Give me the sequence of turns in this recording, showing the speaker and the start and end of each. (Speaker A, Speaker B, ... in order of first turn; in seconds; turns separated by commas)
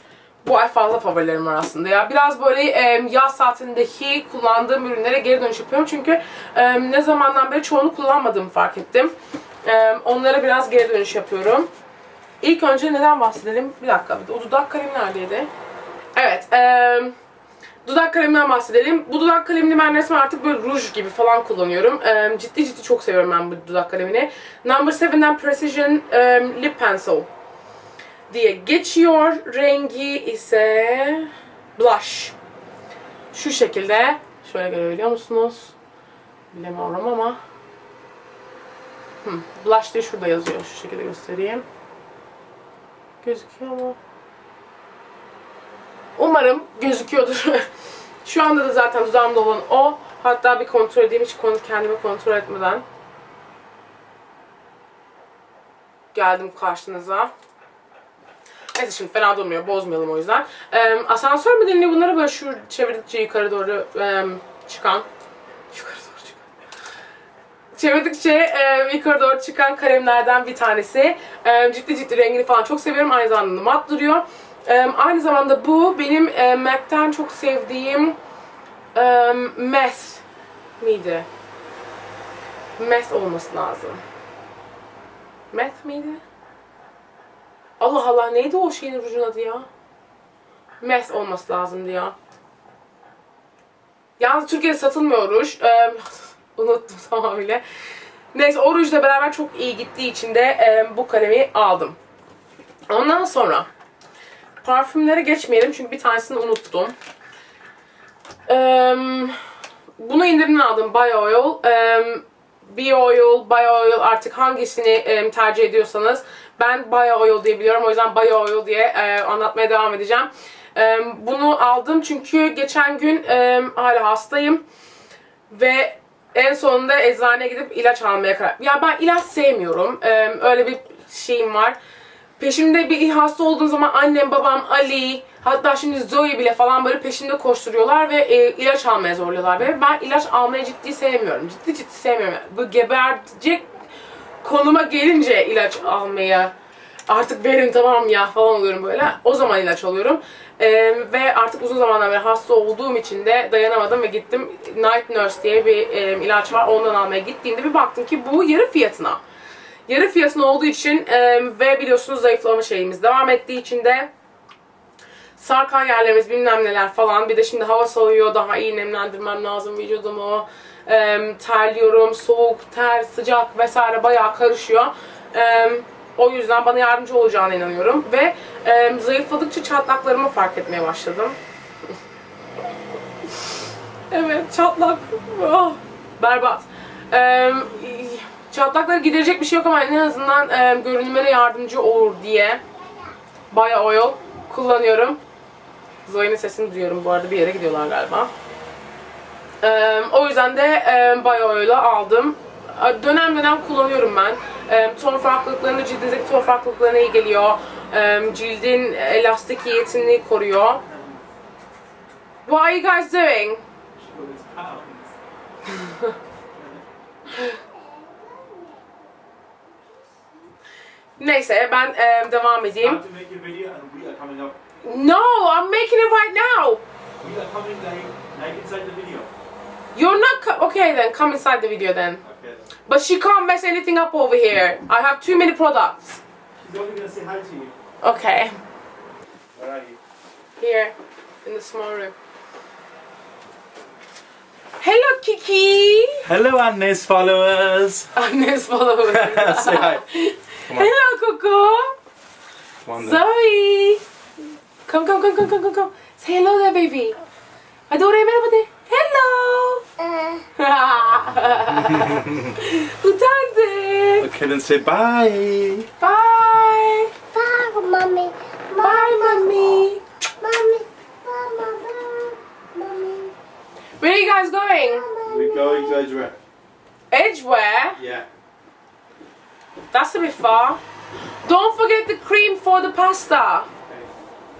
Speaker A: 0.4-9.1, Speaker A: 9.6-11.7, Speaker A: 12.4-15.5, Speaker A: 16.1-17.1, Speaker A: 17.8-27.3, Speaker A: 28.3-32.3, Speaker A: 33.3-35.7, Speaker A: 36.5-37.4, Speaker A: 39.2-41.6, Speaker A: 43.2-44.0, Speaker A: 46.1-47.7, Speaker A: 48.2-52.8, Speaker A: 56.1-57.3, Speaker A: 58.7-65.1, Speaker A: 65.7-66.4, Speaker A: 67.7-78.2, Speaker A: 78.9-80.2, Speaker A: 80.8-81.3, Speaker A: 82.8-84.0, Speaker A: 85.5-86.2, Speaker A: 87.8-89.7, Speaker A: 90.8-92.1, Speaker A: 94.2-97.6, Speaker A: 98.3-102.0, Speaker A: 102.9-103.7, Speaker A: 104.6-106.9, Speaker A: 108.5-109.4, Speaker A: 110.0-124.6, Speaker A: 125.5-131.8, Speaker A: 132.4-143.7, Speaker A: 144.4-146.5, Speaker A: 147.1-159.2, Speaker A: 159.9-164.1, Speaker A: 165.4-181.3, Speaker A: 184.1-192.6, Speaker A: 193.5-195.2, Speaker A: 196.0-198.3, Speaker A: 199.6-210.8, Speaker B: 210.9-211.2, Speaker A: 212.4-213.6, Speaker B: 214.0-215.1, Speaker A: 215.8-216.1, Speaker C: 217.5-218.9, Speaker A: 221.2-223.0, Speaker B: 222.8-224.6, Speaker A: 224.8-226.8, Speaker B: 227.2-229.3, Speaker A: 229.9-232.2, Speaker B: 232.2-232.7, Speaker A: 232.8-236.2, Speaker B: 236.6-237.8, Speaker A: 238.0-238.6, Speaker B: 239.6-240.0, Speaker A: 240.6-242.1, Speaker A: 244.8-246.3, Speaker B: 246.2-248.1, Speaker A: 248.1-251.9, Speaker B: 249.1-250.0, Speaker B: 250.7-250.9, Speaker B: 252.8-253.2, Speaker A: 253.0-254.0, Speaker A: 254.8-257.1, Speaker A: 257.9-259.9, Speaker C: 260.0-260.4, Speaker A: 260.5-264.3, Speaker B: 261.7-262.4, Speaker B: 264.2-265.9, Speaker A: 266.0-267.2, Speaker C: 267.3-269.4, Speaker A: 268.8-270.0, Speaker C: 270.4-273.3, Speaker A: 274.0-275.1, Speaker C: 275.1-275.9, Speaker B: 275.3-276.4, Speaker A: 277.1-278.0, Speaker B: 278.0-278.3, Speaker A: 279.9-280.8, Speaker A: 281.4-283.7